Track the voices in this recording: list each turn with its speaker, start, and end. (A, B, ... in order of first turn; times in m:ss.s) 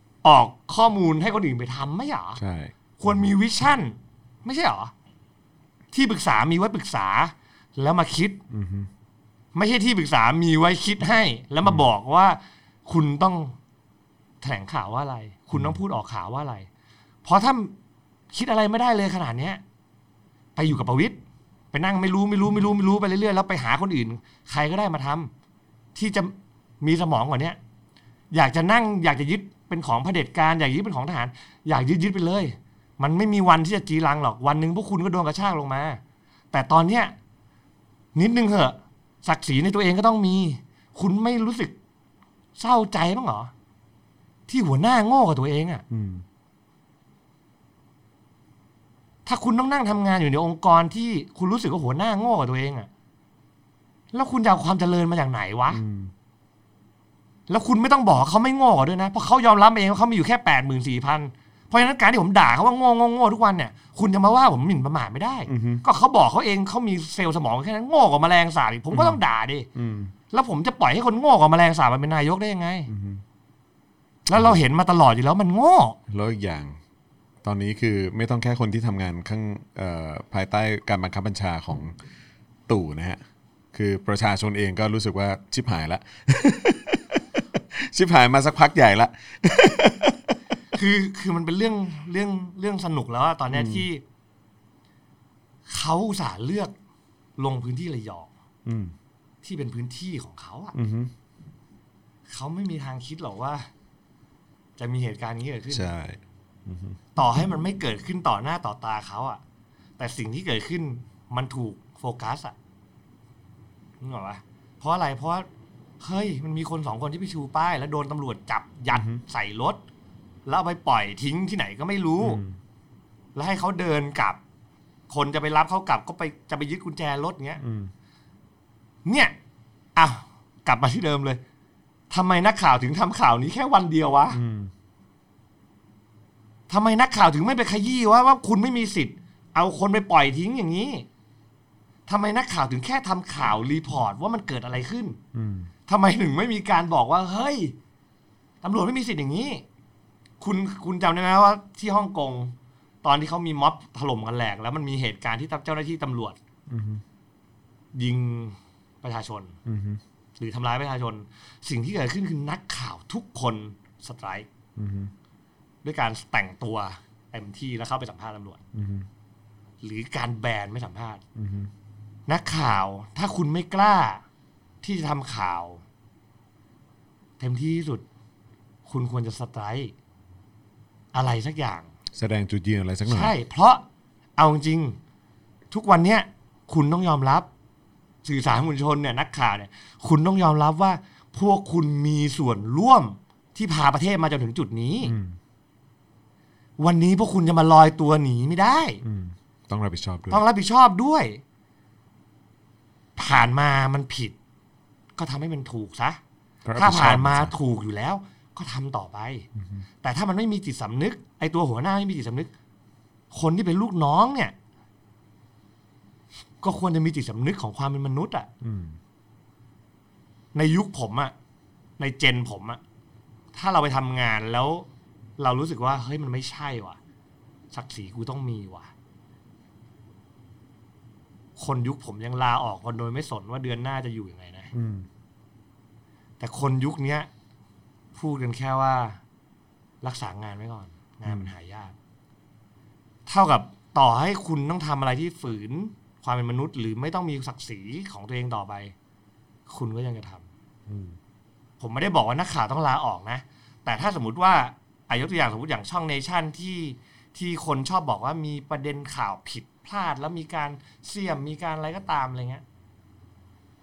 0:00.2-0:02.4 A
0:02.4-0:03.3 B
0:03.0-0:04.9 A
0:05.9-0:08.4 A
0:08.5-0:08.9 B
0:09.5-0:13.6 A
0:14.4-0:16.7 A
0:15.5-0:15.8 B
0:17.2-0:17.7 A
0:18.3-0:19.6 A
0:20.6-0:21.2 A
0:21.7-0:25.3 A
0:25.9-0:27.6 A
0:28.3-0:36.0 A
0:36.5-0:37.1 A
0:38.1-0:41.8 A
0:42.6-0:43.5 A
0:44.5-0:45.8 A
0:45.9-0:46.2 B
0:49.2-0:52.9 A
0:54.1-0:55.8 A
0:55.7-0:56.1 B
0:57.5-1:09.7 A
1:05.5-1:05.8 B
1:08.9-1:09.2 B
1:09.7-1:10.1 B
1:10.3-1:12.9 A
1:12.9-1:13.2 B
1:14.2-1:16.0 A
1:14.4-1:14.6 B
1:16.1-1:16.8 B
1:17.4-1:21.9 B
1:22.7-1:23.2 B
1:23.7-1:27.2 B
1:27.7-1:30.3 B
1:30.7-1:34.0 A
1:33.5-1:33.8 B
1:35.7-1:36.7 A
1:37.4-1:38.3 A
1:38.6-1:38.9 B
1:39.4-1:40.8 A
1:40.7-1:41.1 B
1:42.3-1:43.7 A
1:44.8-1:45.9 A
1:45.7-1:47.0 B
1:47.2-1:49.4 A
1:50.0-1:52.6 A
1:54.0-1:55.5 A
1:56.0-1:59.8 A
1:58.9-1:59.2 B
2:00.4-2:02.4 A
2:02.2-2:02.6 B
2:03.3-2:04.4 A
2:05.1-2:07.6 A
2:07.6-2:07.9 B
2:09.0-2:09.3 A
2:10.0-2:11.4 A
2:12.1-2:14.4 A
2:14.3-2:14.7 B
2:16.7-2:21.1 A
2:22.1-2:25.2 A
2:25.3-2:25.7 B
2:25.9-2:27.7 A
2:28.6-2:29.6 A
2:30.4-2:36.4 A
2:36.7-2:37.0 B
2:37.9-2:39.6 A
2:39.6-2:40.0 B
2:40.4-2:44.5 A
2:44.8-2:45.1 B
2:45.8-2:48.6 A
2:48.7-2:49.1 B
2:49.8-2:51.2 A
2:51.4-2:51.7 B
2:52.3-2:54.2 A
2:54.8-2:55.8 A
2:57.4-2:58.0 A
2:58.8-2:59.9 A
3:01.1-3:01.9 A
3:02.1-3:03.3 B
3:03.0-3:03.8 A
3:04.4-3:05.0 A
3:05.7-3:07.5 A
3:08.2-3:15.1 A
3:15.0-3:15.4 B
3:16.8-3:19.0 A
3:19.0-3:20.4 B
3:20.3-3:21.4 A
3:23.2-3:24.3 A
3:25.2-3:26.2 A
3:26.6-3:27.5 B
3:26.8-3:29.5 A
3:29.6-3:29.8 B
3:30.0-3:32.5 A
3:33.3-3:34.5 A
3:36.6-3:38.5 A
3:38.6-3:39.0 B
3:40.5-3:41.3 A
3:42.0-3:42.8 A
3:43.5-3:44.9 A
3:45.4-3:47.0 A
3:47.7-3:48.9 A
3:51.6-3:54.7 A
3:54.7-3:55.1 B
3:56.4-3:57.3 A
3:58.1-3:59.2 A
4:00.0-4:01.9 A
4:01.2-4:01.5 B
4:03.3-4:08.9 A
4:09.7-4:10.5 A
4:10.9-4:11.2 B
4:11.8-4:22.6 A